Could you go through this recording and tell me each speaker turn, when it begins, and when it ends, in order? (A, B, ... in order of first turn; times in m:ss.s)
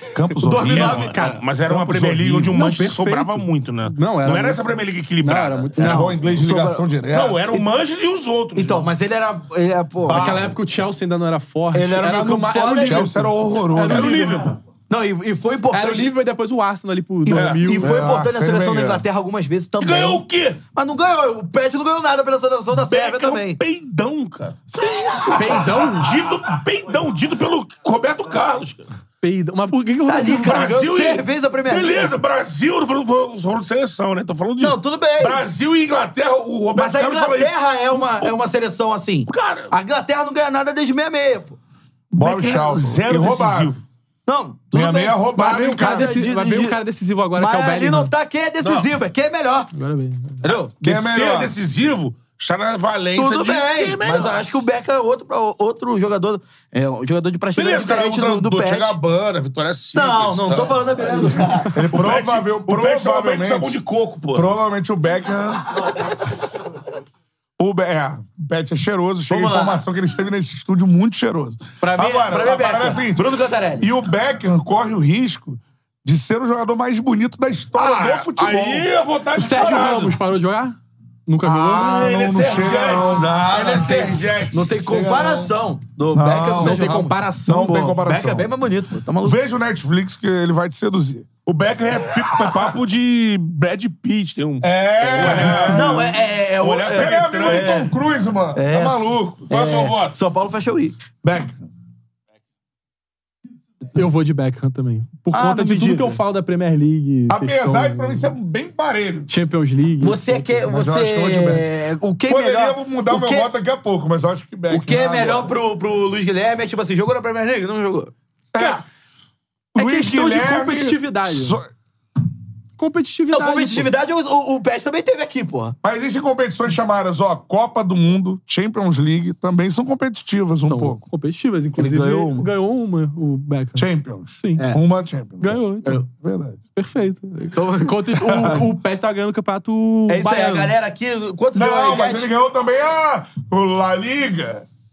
0:00.1-0:01.1 A
0:00.4-0:01.1 B
0:00.6-0:01.4 C
0:00.6-0:05.9 D
0:01.6-0:02.5 A
0:02.5-0:04.6 C
0:05.2-0:06.1 C
0:05.8-0:06.8 B
0:05.8-0:07.5 A
0:07.1-0:08.9 D
0:08.6-0:10.3 B
0:10.1-0:14.4 C
0:10.1-0:10.5 A
0:11.7-0:13.1 B
0:12.8-0:14.4 A
0:13.8-0:14.5 D
0:14.9-0:16.1 B
0:15.7-0:18.0 C
0:17.2-0:23.6 B
0:17.3-0:17.6 D
0:17.4-0:19.0 A
0:19.8-0:20.6 D
0:22.7-0:28.9 D
0:24.8-0:25.4 B
0:25.3-0:26.1 C
0:29.2-0:30.7 C
0:30.0-0:32.1 B
0:30.3-0:38.4 D
0:34.6-0:35.4 B
0:36.7-0:41.6 B
0:39.3-0:39.7 D
0:42.1-0:43.8 D
0:42.2-0:43.7 A
0:44.2-0:45.2 B
0:44.7-0:46.1 A
0:45.3-0:48.1 C
0:45.7-0:46.8 B
0:47.3-0:49.7 B
0:48.6-0:48.9 D
0:49.7-0:50.4 C
0:50.4-0:50.7 B
0:50.5-0:54.4 D
0:50.8-0:51.6 A
0:53.2-0:59.0 B
0:57.5-1:00.8 D
0:59.9-1:01.9 B
1:01.7-1:03.7 A
1:01.9-1:04.5 D
1:04.3-1:05.9 A
1:07.6-1:18.9 A
1:09.3-1:09.8 B
1:11.8-1:13.9 B
1:17.7-1:20.2 D
1:19.4-1:20.8 C
1:21.3-1:22.1 C
1:21.4-1:23.3 A
1:21.7-1:24.7 D
1:23.0-1:29.4 B
1:24.8-1:25.5 A
1:26.1-1:26.8 A
1:26.6-1:27.9 C
1:27.4-1:28.5 A
1:29.2-1:31.3 A
1:31.4-1:37.9 D
1:32.2-1:32.7 A
1:34.6-1:36.2 A
1:35.1-1:37.9 B
1:36.9-1:39.5 A
1:38.5-1:41.0 B
1:39.5-1:40.2 D
1:41.2-1:41.6 A
1:43.9-1:48.3 C
1:45.3-1:46.2 B
1:47.3-1:49.3 A
1:49.3-1:50.6 C
1:50.0-1:53.5 B
1:50.7-1:51.7 A
1:52.2-1:55.5 A
1:54.7-1:58.1 B
1:58.5-1:58.8 A
1:59.7-2:01.7 A
1:59.8-2:01.6 C
2:02.8-2:03.9 C
2:03.3-2:05.8 B
2:05.8-2:11.0 A
2:10.7-2:14.7 C
2:11.8-2:12.5 B
2:13.8-2:16.6 A
2:15.4-2:16.0 C
2:16.8-2:20.7 C
2:17.5-2:18.3 B
2:18.2-2:18.6 A
2:20.1-2:22.3 B
2:21.5-2:24.6 A